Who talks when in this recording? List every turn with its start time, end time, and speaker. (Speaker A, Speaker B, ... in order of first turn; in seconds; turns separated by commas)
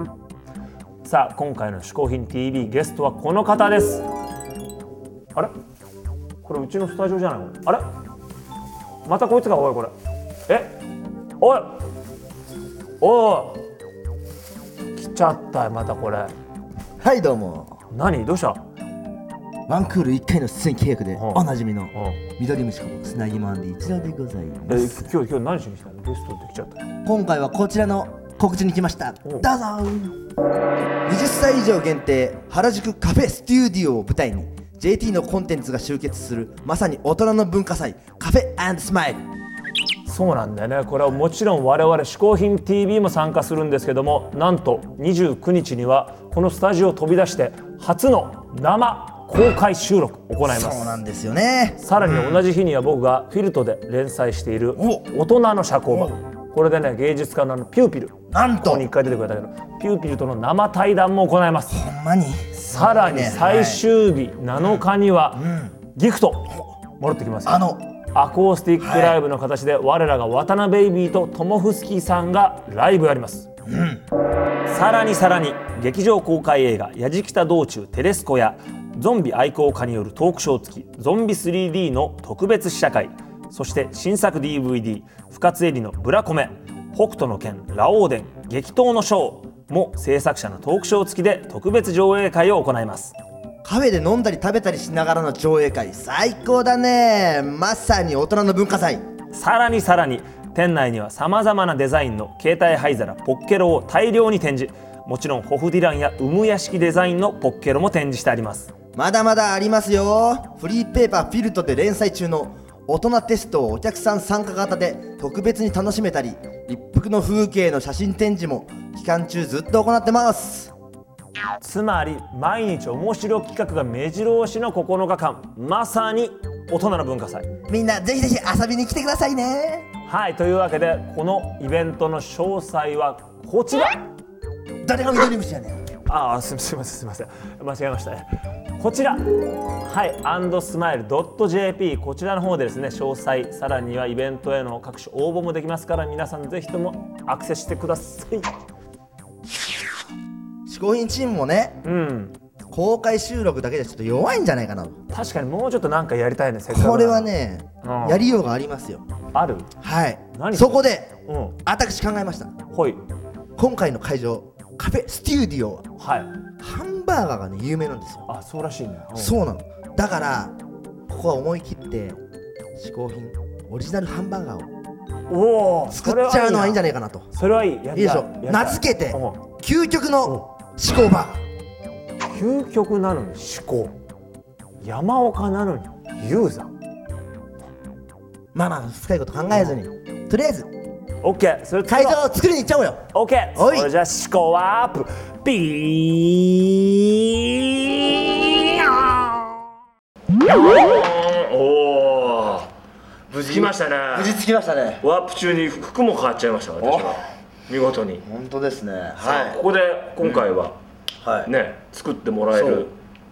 Speaker A: 1.0-4.0, Speaker A: 6.4-7.8, Speaker A: 9.1-9.9, Speaker A: 10.5-10.8, Speaker A: 11.4-11.8, Speaker A: 13.0-13.6, Speaker A: 15.0-16.3, Speaker B: 17.0-17.8, Speaker A: 17.9-18.6, Speaker B: 19.7-25.1, Speaker A: 21.1-22.2, Speaker A: 24.7-26.8, Speaker B: 27.0-30.1, Speaker B: 31.1-39.2, Speaker A: 40.0-51.0, Speaker B: 50.4-52.4, Speaker A: 51.8-61.8, Speaker B: 54.7-55.1, Speaker B: 55.9-56.1, Speaker B: 58.3-58.9, Speaker B: 61.7-63.8, Speaker A: 62.6-67.6, Speaker B: 64.5-64.8, Speaker B: 65.3-65.7, Speaker B: 67.5-67.8, Speaker A: 68.1-73.5, Speaker B: 68.8-69.2, Speaker B: 73.7-74.0, Speaker A: 74.7-93.2, Speaker B: 93.6-99.0, Speaker A: 99.3-108.7, Speaker B: 108.9-120.7, Speaker A: 121.6-127.5, Speaker B: 127.7-129.9, Speaker A: 130.1-134.0, Speaker B: 134.8-135.8, Speaker A: 136.1-138.2, Speaker A: 138.8-139.2, Speaker A: 139.8-148.5, Speaker B: 150.7-151.8, Speaker A: 151.8-152.3, Speaker B: 152.7-154.9, Speaker A: 155.1-157.3, Speaker B: 156.7-159.0, Speaker A: 157.8-158.2, Speaker A: 159.3-159.7, Speaker B: 159.8-161.1, Speaker A: 160.3-161.6, Speaker B: 161.6-162.5, Speaker A: 162.7-163.0, Speaker B: 163.6-165.9, Speaker A: 166.0-166.3, Speaker B: 166.6-168.3, Speaker A: 168.3-169.3, Speaker B: 169.1-170.6, Speaker B: 171.1-172.2, Speaker B: 172.8-174.7, Speaker A: 175.3-176.8, Speaker B: 175.9-177.3, Speaker A: 177.3-179.4, Speaker B: 177.9-181.4, Speaker A: 182.2-183.9, Speaker A: 184.8-186.7, Speaker B: 188.5-190.7, Speaker A: 191.2-192.2, Speaker B: 191.8-193.9, Speaker A: 193.1-199.4, Speaker A: 200.4-202.7, Speaker B: 203.3-205.0, Speaker A: 203.4-204.4, Speaker A: 205.0-208.2, Speaker B: 206.8-207.2, Speaker B: 208.2-209.6, Speaker A: 209.2-210.8, Speaker B: 211.2-211.5, Speaker A: 211.4-212.9, Speaker B: 212.5-212.9